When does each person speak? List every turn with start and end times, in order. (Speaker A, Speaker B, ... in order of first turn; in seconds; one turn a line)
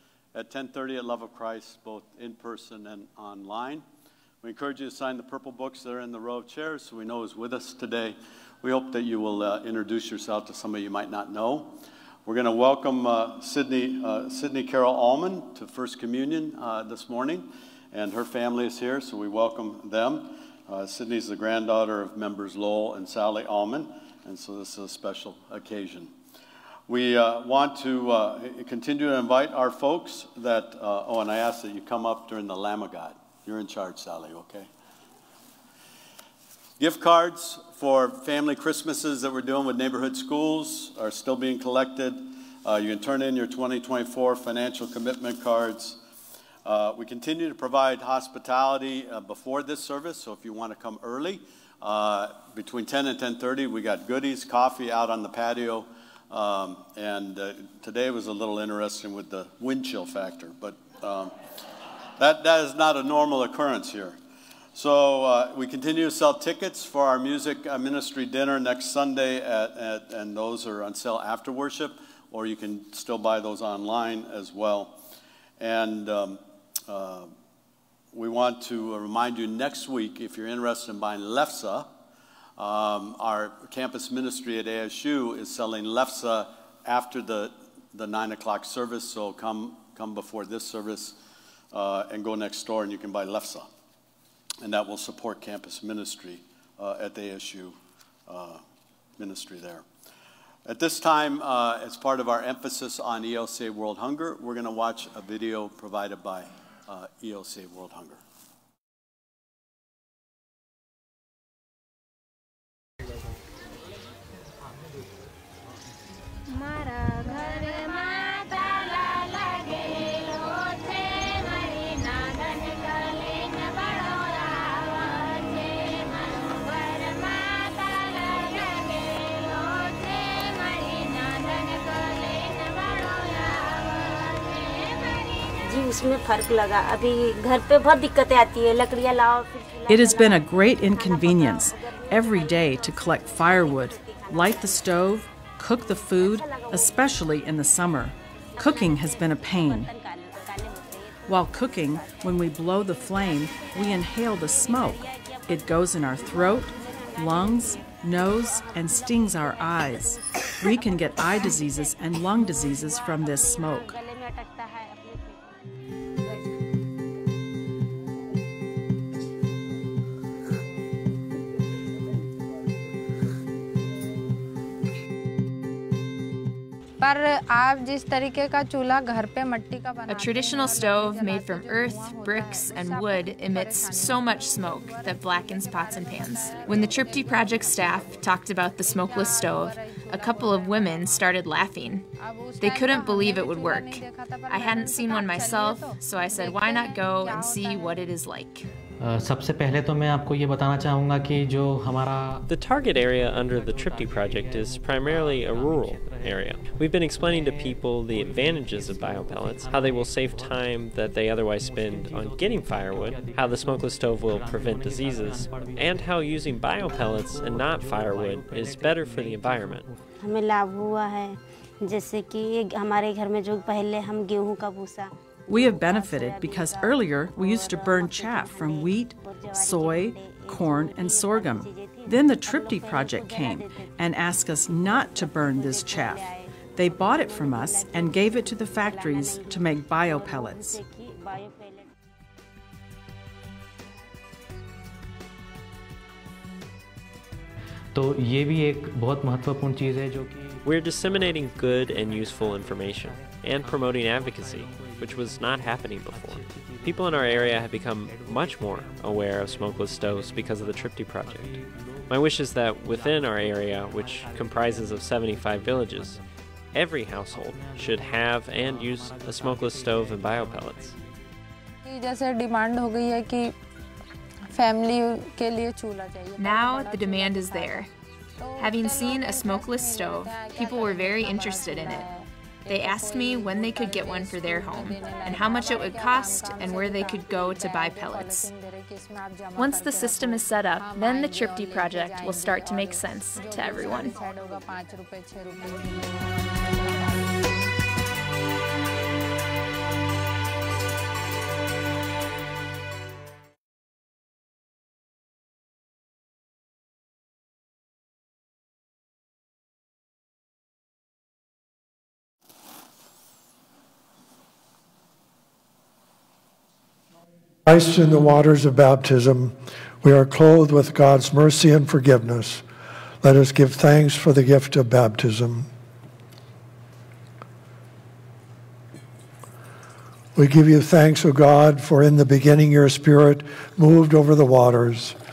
Speaker A: 0.3-3.9
Speaker A: 4.4-26.1
Speaker A: 26.9-34.7
Speaker A: 36.8-46.0
Speaker A: 46.6-61.3
Speaker A: 62.2-64.2
Speaker A: 64.8-75.0
Speaker A: 75.6-77.3
Speaker A: 78.1-81.9
Speaker A: 82.6-91.2
Speaker A: 91.7-93.7
Speaker A: 94.6-98.6
Speaker A: 99.2-99.8
Speaker A: 100.7-108.2
Speaker B: 135.6-143.9
Speaker C: 139.9-149.9
Speaker B: 144.4-144.8
Speaker B: 146.5-146.9
Speaker C: 151.3-164.0
Speaker D: 177.0-188.1
Speaker E: 180.1-192.1
Speaker D: 188.9-191.1
Speaker D: 192.2-197.9
Speaker E: 192.6-198.7
Speaker F: 199.0-202.4
Speaker G: 202.5-219.9
Speaker B: 220.2-233.6
Speaker C: 225.5-240.8
Speaker B: 235.1-236.3
Speaker B: 236.8-241.6
Speaker F: 247.9-250.5
Speaker G: 250.6-266.2
Speaker G: 266.7-271.0
Speaker D: 271.9-273.5
Speaker D: 274.5-277.9
Speaker E: 276.4-277.9
Speaker D: 278.4-296.3
Speaker E: 278.6-282.1
Speaker E: 282.7-288.5
Speaker E: 289.6-294.1
Speaker H: 317.7-322.6
Speaker H: 323.2-325.7
Speaker H: 330.4-335.2